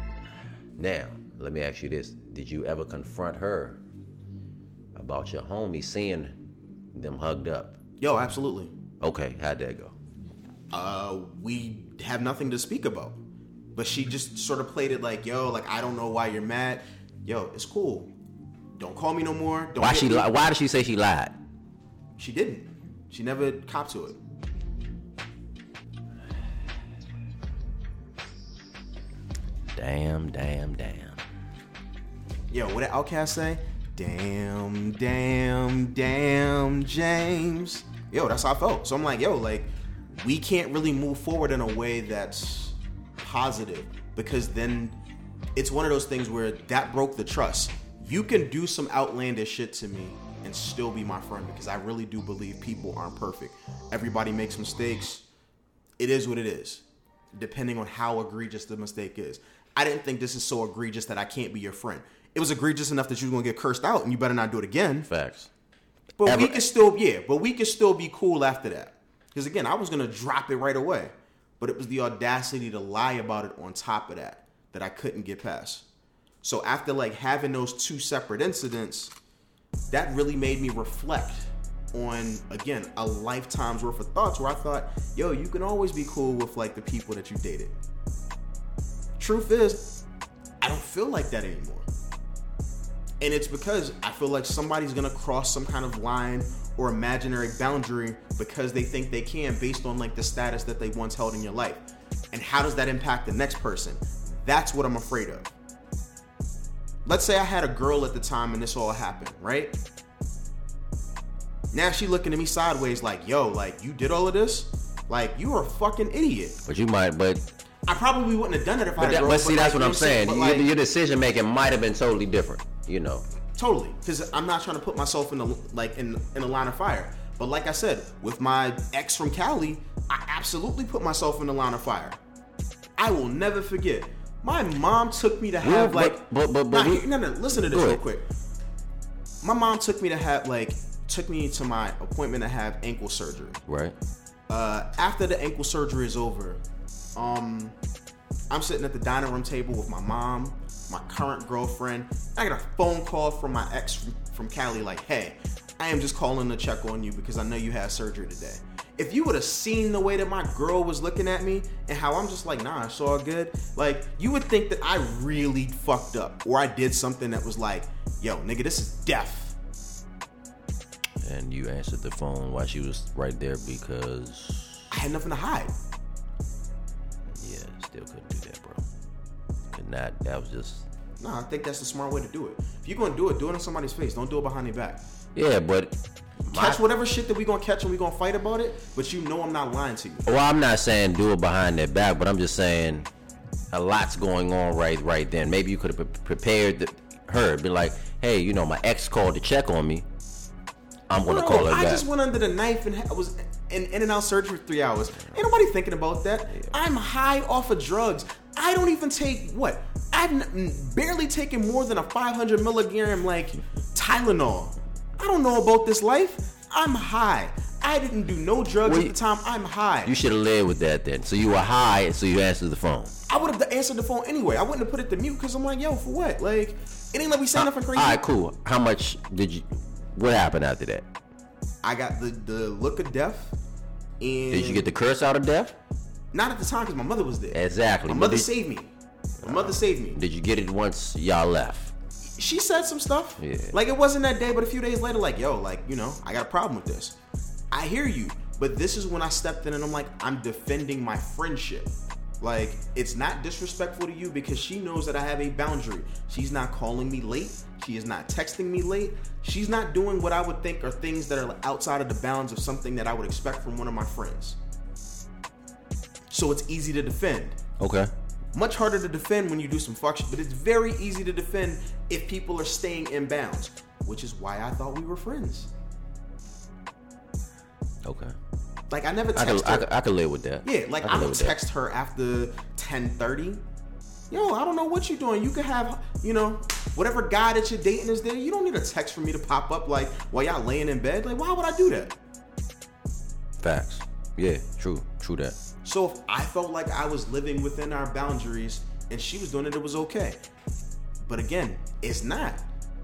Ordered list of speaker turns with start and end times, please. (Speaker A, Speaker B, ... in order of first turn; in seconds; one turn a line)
Speaker A: 0.8-3.8
Speaker A: 4.9-6.4
Speaker A: 6.9-7.8
Speaker B: 8.0-8.7
Speaker A: 9.0-9.9
Speaker B: 10.7-13.2
Speaker B: 13.7-18.1
Speaker B: 18.8-20.4
Speaker A: 19.8-21.4
Speaker B: 22.2-24.2
Speaker A: 29.7-31.2
Speaker B: 32.5-45.0
Speaker B: 45.6-55.2
Speaker B: 56.0-65.1
Speaker A: 65.1-65.5
Speaker B: 66.2-75.9
Speaker A: 66.2-66.6
Speaker B: 76.4-79.1
Speaker B: 79.9-87.8
Speaker B: 89.2-89.9
Speaker B: 90.6-91.9
Speaker B: 93.2-105.5
Speaker B: 107.1-109.8
Speaker B: 111.7-116.6
Speaker A: 116.6-117.5
Speaker B: 117.9-120.7
Speaker A: 119.0-123.2
Speaker B: 123.6-132.2
Speaker B: 133.0-138.2
Speaker A: 135.6-138.0
Speaker B: 139.4-143.6
Speaker A: 143.7-143.9
Speaker B: 144.5-146.6
Speaker B: 147.2-147.8
Speaker B: 148.5-169.6
Speaker A: 171.2-174.9
Speaker B: 174.9-175.7
Speaker A: 177.3-178.8
Speaker A: 179.7-180.9
Speaker B: 181.2-185.0
Speaker A: 185.3-186.0
Speaker B: 186.5-190.3
Speaker A: 186.5-186.8
Speaker A: 190.2-193.1
Speaker A: 193.7-200.1
Speaker A: 201.1-202.1
Speaker B: 201.2-220.1
Speaker A: 218.8-219.2
Speaker A: 220.1-223.1
Speaker B: 223.3-228.2
Speaker A: 227.6-231.1
Speaker B: 231.8-233.6
Speaker B: 234.2-234.9
Speaker A: 234.5-235.8
Speaker B: 236.3-240.2
Speaker A: 237.5-238.5
Speaker A: 239.4-241.9
Speaker B: 242.4-247.2
Speaker A: 243.4-243.7
Speaker B: 247.7-264.6
Speaker B: 266.3-267.6
Speaker A: 267.8-268.1
Speaker B: 268.6-275.7
Speaker A: 278.0-278.4
Speaker B: 278.9-279.9
Speaker A: 279.4-281.6
Speaker B: 280.6-283.6
Speaker B: 284.3-292.2
Speaker A: 293.6-295.6
Speaker B: 295.8-300.4
Speaker B: 301.2-302.6